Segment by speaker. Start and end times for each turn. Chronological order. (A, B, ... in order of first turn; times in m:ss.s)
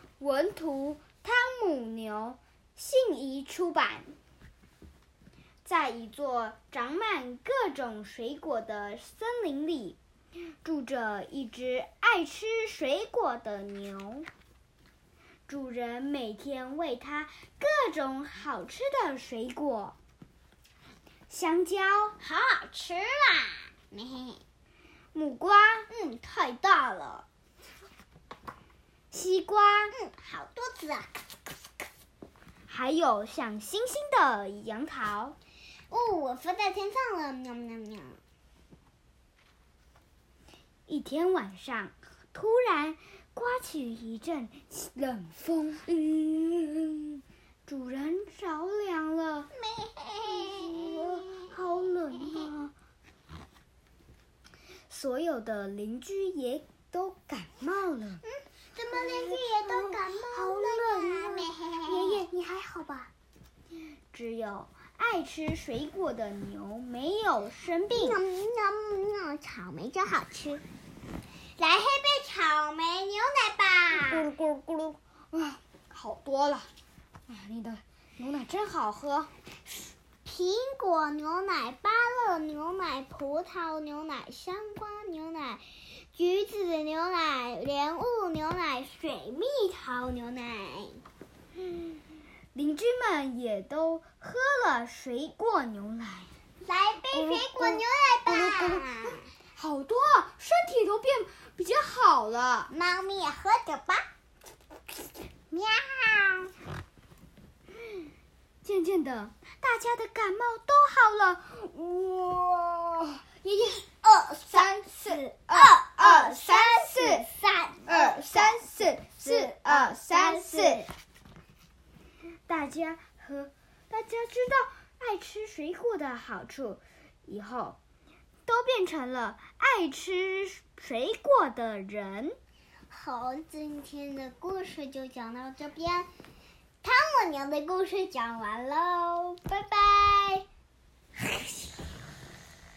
0:00.2-0:04.1 A
0:05.6-0:10.0 A
0:10.6-0:14.3 A
0:15.5-0:20.0 A
0:21.3-0:22.2 A
0:22.2-0:24.4 B
0:25.1-0:25.9 A
0:25.9-0:27.3 B
0:29.1-0:30.0 A
0:29.9-0:31.1 B
0:32.7-0:35.4 A
0:35.9-0:38.2 B
0:40.9-0:49.5 A
0:49.5-0:51.0 B
0:50.4-0:52.7 A
0:54.9-0:58.2 A
0:58.3-1:02.2 B
0:58.9-1:03.1 A
1:04.1-1:08.2 A
1:07.9-1:10.6 B
1:11.6-1:14.3 B
1:13.9-1:16.7 A
1:17.3-1:19.3 A
1:20.2-1:31.0 B
1:31.6-1:32.0 A
1:32.5-1:36.3 A
1:36.6-1:39.2 B
1:37.1-1:42.7 A
1:42.7-1:44.0 B
1:45.5-1:46.5 B
1:48.6-1:53.2 A
1:53.4-2:00.9 B
1:54.5-1:57.3 A
1:57.9-2:00.9 A
2:02.5-2:07.8 A
2:08.5-2:12.4 A
2:12.9-2:16.1 B
2:16.8-2:20.5 B